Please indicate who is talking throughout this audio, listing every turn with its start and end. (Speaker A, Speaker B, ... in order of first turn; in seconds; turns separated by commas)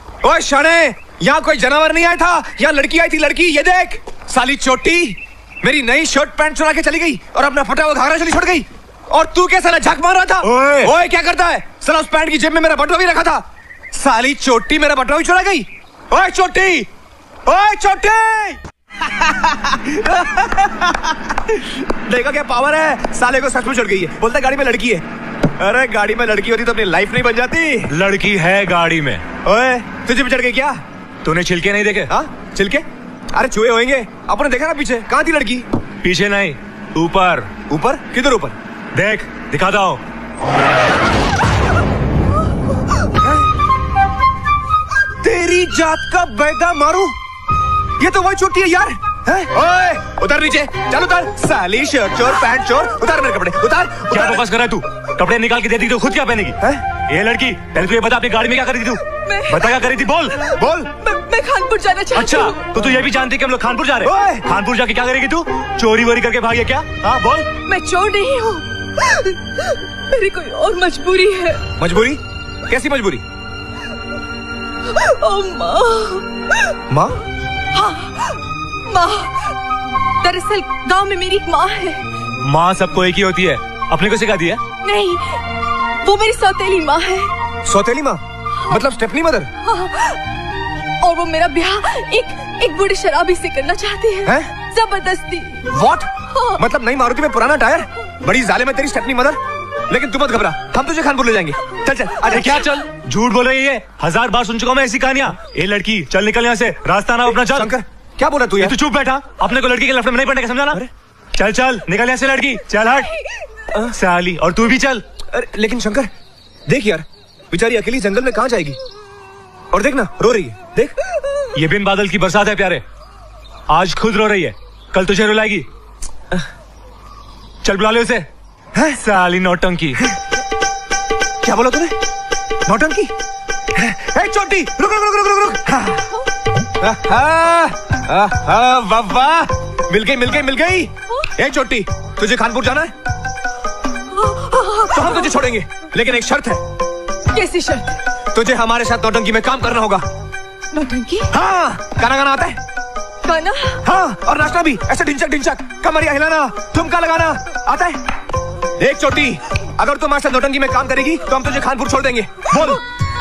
Speaker A: 0.2-16.9, Speaker B: 10.4-10.9, Speaker A: 17.5-18.6, Speaker A: 19.1-25.0, Speaker A: 25.6-27.9, Speaker B: 27.9-29.2, Speaker A: 29.4-30.8, Speaker B: 31.2-32.1, Speaker A: 32.1-35.6, Speaker B: 36.0-37.5, Speaker A: 37.7-38.5, Speaker B: 38.9-40.0, Speaker A: 45.2-47.1, Speaker A: 48.0-54.4, Speaker B: 54.1-60.4, Speaker C: 59.1-59.8, Speaker C: 60.4-62.7, Speaker A: 60.6-60.9, Speaker B: 62.1-67.5, Speaker A: 64.0-64.5, Speaker C: 67.6-71.6, Speaker A: 71.8-73.2, Speaker C: 74.9-76.7, Speaker A: 76.9-77.2, Speaker C: 77.7-79.6, Speaker C: 80.2-82.1, Speaker B: 82.4-84.6, Speaker C: 84.8-87.3, Speaker A: 87.7-89.5, Speaker C: 89.6-90.2, Speaker C: 91.0-95.7, Speaker A: 94.2-94.5, Speaker A: 95.7-102.6, Speaker C: 96.3-96.6, Speaker B: 102.2-107.7, Speaker A: 107.3-108.8, Speaker B: 108.6-110.8, Speaker B: 111.3-113.2, Speaker B: 113.9-115.0, Speaker A: 115.3-116.1, Speaker A: 116.7-118.8, Speaker A: 119.7-120.9, Speaker B: 121.5-122.8, Speaker B: 123.7-125.7, Speaker B: 127.6-128.3, Speaker B: 128.9-130.0, Speaker A: 131.4-131.9, Speaker A: 132.7-133.1, Speaker A: 133.7-136.0, Speaker A: 136.8-142.9, Speaker C: 144.1-145.3, Speaker A: 144.9-146.6, Speaker C: 147.3-148.0, Speaker A: 148.3-150.1, Speaker C: 150.7-151.3, Speaker A: 151.3-152.6, Speaker C: 153.2-153.8, Speaker A: 153.8-158.0, Speaker A: 158.8-162.8, Speaker C: 162.5-162.8